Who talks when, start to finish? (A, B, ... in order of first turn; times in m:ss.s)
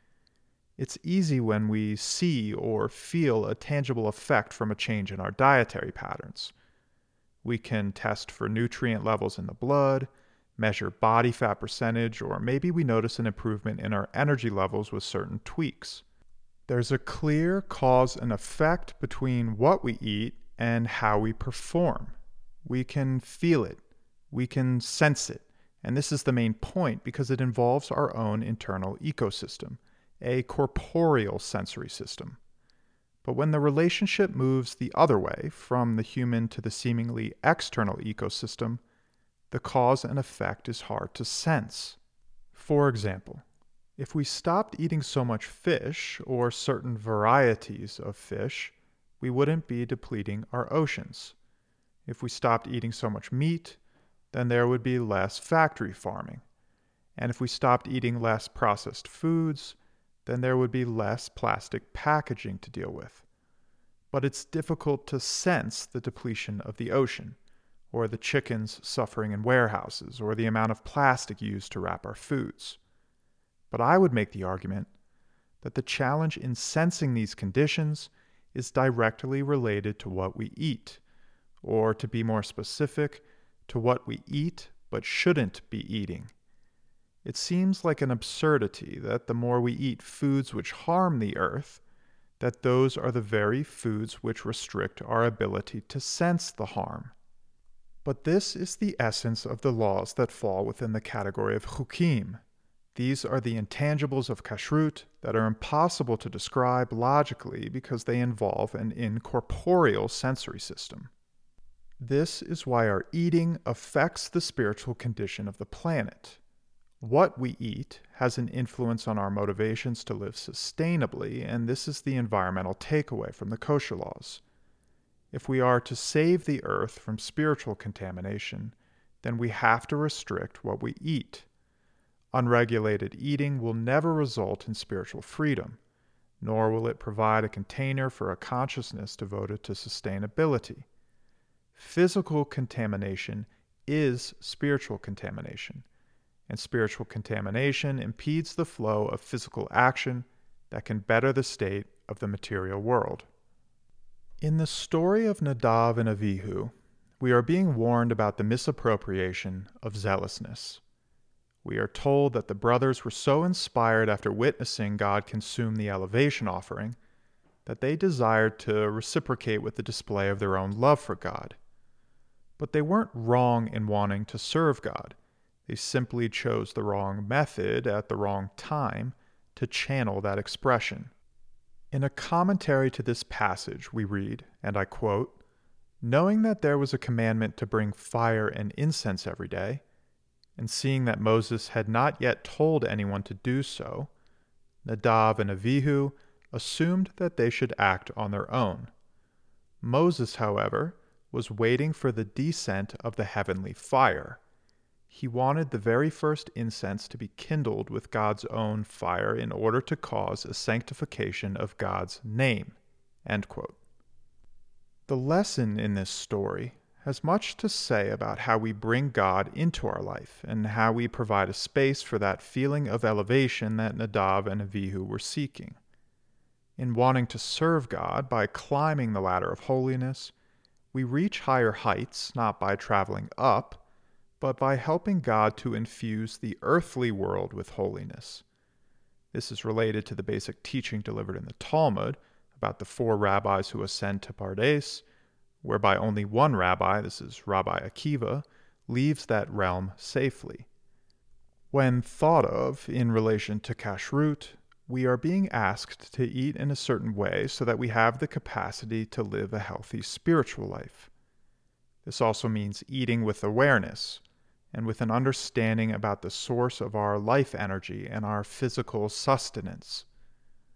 0:00.8-0:06.5 A
0:07.4-0:16.0 A
0:16.7-0:32.4 A
0:33.2-0:38.8 A
0:39.5-0:42.0 A
0:42.5-0:43.4 A
0:44.0-0:51.4 A
0:52.0-0:53.8 A
0:54.3-0:56.4 A
0:57.2-1:03.2 A
1:04.1-1:07.4 A
1:07.9-1:12.8 A
1:13.7-1:14.9 A
1:15.6-1:21.0 A
1:21.6-1:26.3 A
1:27.2-1:31.8 A
1:32.4-1:37.1 A
1:38.0-1:42.4 A
1:42.9-1:51.1 A
1:52.0-1:56.4 A
1:57.0-2:04.4 A
2:05.3-2:11.5 A
2:12.3-2:15.8 A
2:16.4-2:20.9 A
2:21.7-2:25.8 A
2:26.5-2:33.3 A
2:34.4-2:40.8 A
2:41.6-2:47.0 A
2:47.6-2:51.6 A
2:52.6-3:01.1 A
3:01.9-3:05.4 A
3:06.0-3:09.8 A
3:10.6-3:14.1 A
3:14.8-3:18.9 A
3:19.8-3:24.4 A
3:25.1-3:33.8 A
3:35.1-3:45.8 A
3:46.8-3:50.3 A
3:50.9-3:53.8 A
3:54.4-3:58.4 A
3:59.3-4:05.0 A
4:05.6-4:10.7 A
4:11.7-4:21.1 A
4:22.0-4:30.1 A